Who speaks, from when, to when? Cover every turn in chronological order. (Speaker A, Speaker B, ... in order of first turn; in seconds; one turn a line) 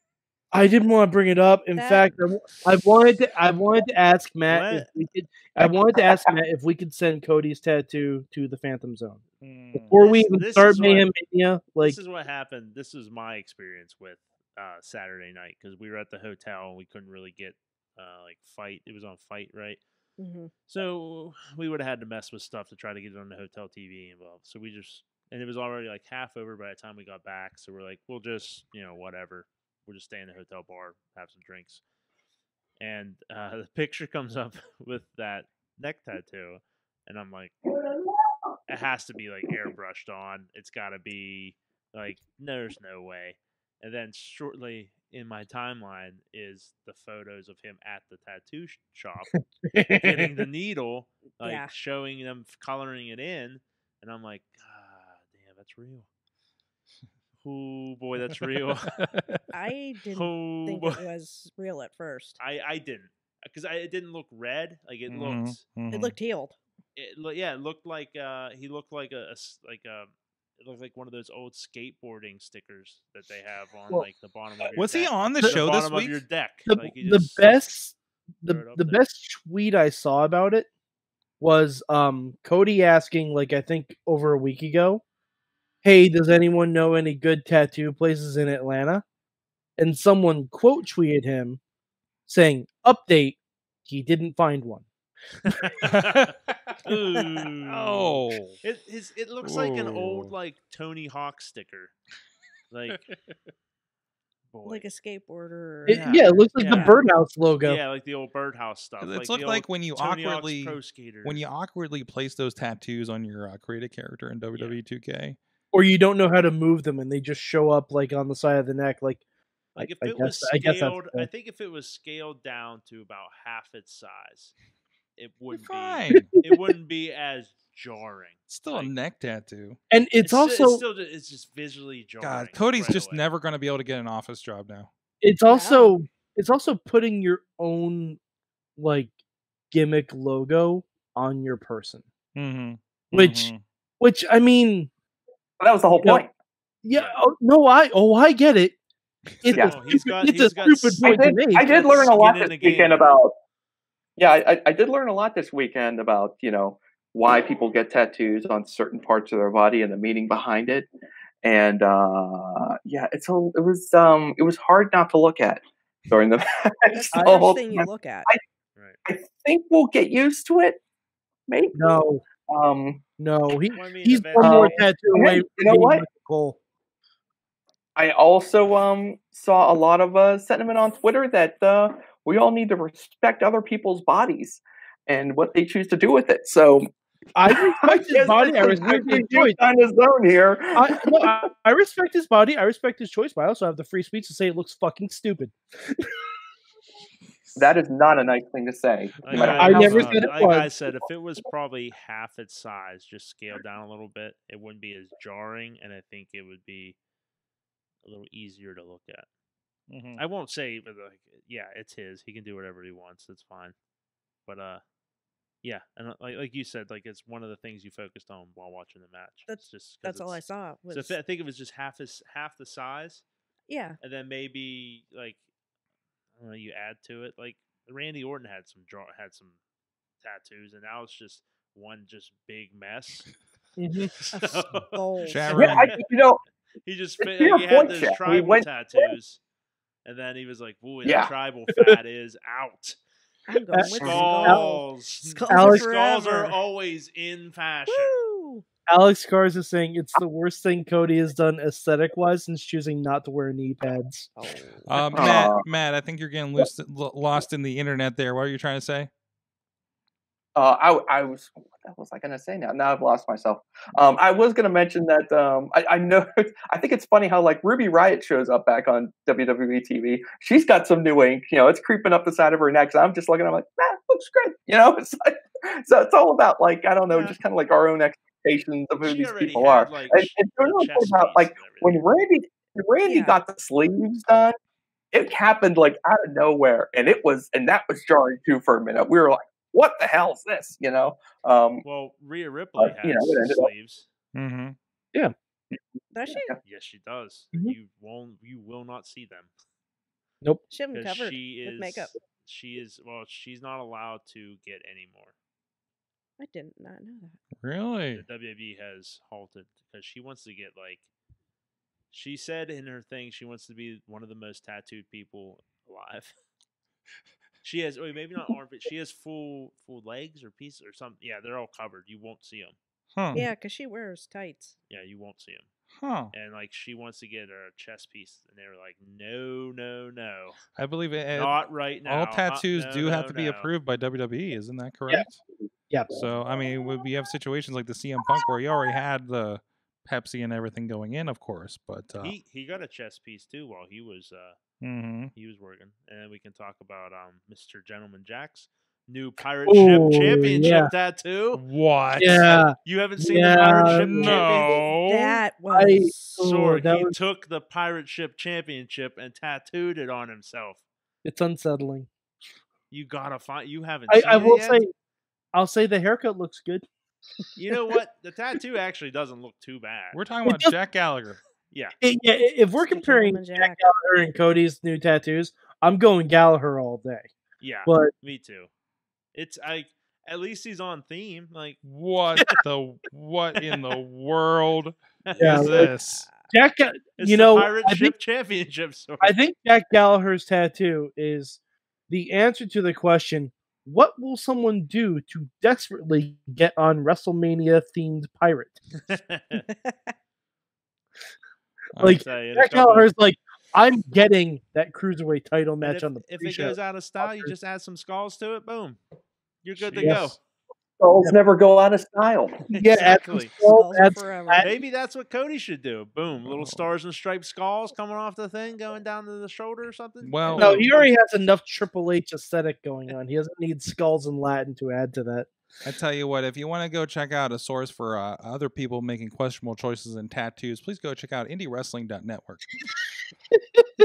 Speaker A: 0.5-9.2
Speaker B: 1.8-2.1
Speaker C: 4.5-4.9
Speaker D: 9.4-10.0
Speaker A: 9.8-12.0
Speaker C: 9.9-11.1
Speaker C: 11.8-19.8
Speaker B: 20.2-20.5
Speaker C: 20.7-31.8
Speaker C: 32.8-37.5
Speaker C: 38.7-49.4
Speaker A: 49.6-50.3
Speaker C: 49.9-56.1
Speaker B: 51.3-51.7
Speaker C: 57.4-58.9
Speaker D: 58.9-59.4
Speaker B: 59.5-62.4
Speaker C: 60.1-61.0
Speaker C: 62.4-65.6
Speaker D: 65.1-66.1
Speaker B: 65.9-66.6
Speaker C: 67.0-77.6
Speaker D: 74.8-76.2
Speaker A: 76.7-80.7
Speaker C: 78.5-79.0
Speaker A: 81.4-85.0
Speaker A: 85.8-89.0
Speaker A: 89.8-91.6
Speaker A: 92.3-94.9
Speaker C: 95.5-96.3
Speaker D: 95.8-96.8
Speaker C: 96.8-101.9
Speaker B: 97.2-97.5
Speaker D: 97.7-98.6
Speaker D: 99.4-100.3
Speaker C: 102.7-103.1
Speaker C: 104.5-104.8
Speaker B: 104.6-107.0
Speaker A: 105.9-107.8
Speaker C: 105.9-107.0
Speaker C: 107.6-111.4
Speaker D: 109.0-115.4
Speaker A: 115.7-119.2
Speaker A: 119.8-121.3
Speaker C: 119.8-124.5
Speaker C: 125.2-128.9
Speaker D: 125.5-126.3
Speaker A: 126.4-126.7
Speaker D: 128.5-129.8
Speaker A: 129.9-130.8
Speaker C: 130.2-133.2
Speaker D: 132.2-134.9
Speaker A: 135.2-138.2
Speaker B: 135.5-135.9
Speaker A: 138.8-139.1
Speaker A: 139.7-142.0
Speaker D: 142.4-143.6
Speaker A: 143.1-144.9
Speaker E: 145.6-146.3
Speaker A: 146.8-148.8
Speaker C: 146.9-147.2
Speaker A: 149.4-151.9
Speaker E: 149.5-149.8
Speaker C: 149.6-153.2
Speaker E: 151.0-153.3
Speaker E: 154.2-160.9
Speaker E: 161.4-168.4
Speaker B: 167.0-168.3
Speaker A: 167.1-167.4
Speaker E: 169.1-170.8
Speaker E: 171.5-173.0
Speaker A: 171.8-172.2
Speaker A: 173.2-176.6
Speaker C: 173.7-174.8
Speaker E: 174.4-176.1
Speaker E: 177.9-186.9
Speaker A: 187.3-189.6
Speaker E: 187.5-191.3
Speaker A: 190.8-196.1
Speaker E: 197.6-200.0
Speaker C: 199.2-207.0
Speaker D: 199.3-200.1
Speaker A: 199.3-200.7
Speaker C: 208.0-209.3
Speaker D: 209.9-210.2
Speaker C: 210.2-213.8
Speaker C: 214.4-214.8
Speaker C: 215.6-223.2
Speaker B: 219.5-221.2
Speaker B: 223.7-224.0
Speaker C: 224.0-225.4
Speaker C: 226.4-229.6
Speaker C: 230.2-233.3
Speaker A: 233.8-234.1
Speaker C: 234.3-236.0
Speaker B: 234.9-235.6
Speaker D: 235.2-235.9
Speaker E: 235.5-236.4
Speaker C: 236.8-239.4
Speaker E: 237.2-239.1
Speaker C: 240.1-243.0
Speaker E: 241.0-241.3
Speaker B: 243.5-246.6
Speaker A: 243.7-244.6
Speaker C: 243.9-248.2
Speaker A: 245.5-245.9
Speaker B: 247.9-248.6
Speaker A: 248.9-254.3
Speaker B: 254.4-255.2
Speaker D: 254.9-259.1
Speaker E: 255.1-255.6
Speaker E: 260.6-284.6
Speaker B: 277.1-277.4
Speaker C: 279.0-282.0
Speaker B: 283.0-283.4
Speaker E: 285.1-291.8
Speaker C: 291.8-294.1
Speaker E: 292.8-293.7
Speaker D: 294.4-294.8
Speaker B: 296.1-296.5
Speaker C: 296.6-299.5
Speaker B: 300.7-302.1
Speaker C: 300.9-305.4
Speaker B: 306.4-307.4
Speaker D: 307.6-308.2
Speaker C: 308.1-311.1
Speaker C: 312.1-316.3
Speaker C: 317.6-322.8
Speaker B: 323.4-324.8
Speaker C: 324.9-325.7
Speaker D: 326.0-326.3
Speaker C: 326.3-330.6
Speaker D: 330.8-331.6
Speaker C: 331.3-333.7
Speaker D: 332.1-335.4
Speaker A: 335.9-336.2
Speaker D: 336.1-342.4
Speaker C: 342.2-344.6
Speaker D: 344.8-345.3
Speaker C: 345.4-351.6
Speaker A: 349.7-350.9
Speaker D: 351.6-352.6
Speaker A: 352.2-354.4
Speaker C: 352.8-354.8
Speaker D: 354.0-355.4
Speaker B: 354.2-356.4
Speaker A: 355.7-357.1
Speaker C: 356.2-360.8
Speaker A: 361.2-362.1
Speaker C: 362.9-364.8
Speaker A: 364.1-364.9
Speaker A: 365.5-366.9
Speaker C: 367.6-370.2
Speaker D: 370.1-371.4
Speaker A: 370.4-370.8
Speaker C: 371.7-372.0
Speaker A: 372.0-377.3
Speaker B: 372.9-373.9
Speaker C: 377.6-378.7
Speaker A: 377.9-378.1
Speaker C: 379.3-381.8
Speaker D: 381.8-386.3
Speaker C: 383.6-383.9
Speaker C: 385.3-385.9
Speaker A: 385.4-385.9
Speaker B: 385.7-386.5
Speaker A: 386.5-388.1
Speaker C: 387.2-389.4
Speaker A: 389.2-398.8
Speaker C: 398.9-399.6
Speaker B: 399.6-400.1
Speaker D: 401.9-402.2
Speaker A: 402.0-407.5
Speaker C: 402.1-403.1
Speaker C: 405.8-409.0
Speaker C: 409.6-410.4
Speaker D: 409.8-410.3
Speaker A: 409.9-410.3
Speaker E: 411.0-412.6
Speaker C: 412.7-413.6
Speaker A: 412.7-414.6
Speaker B: 413.6-414.8
Speaker C: 414.6-421.1
Speaker D: 416.5-416.8
Speaker D: 420.2-420.9
Speaker A: 420.6-425.5
Speaker D: 425.8-432.6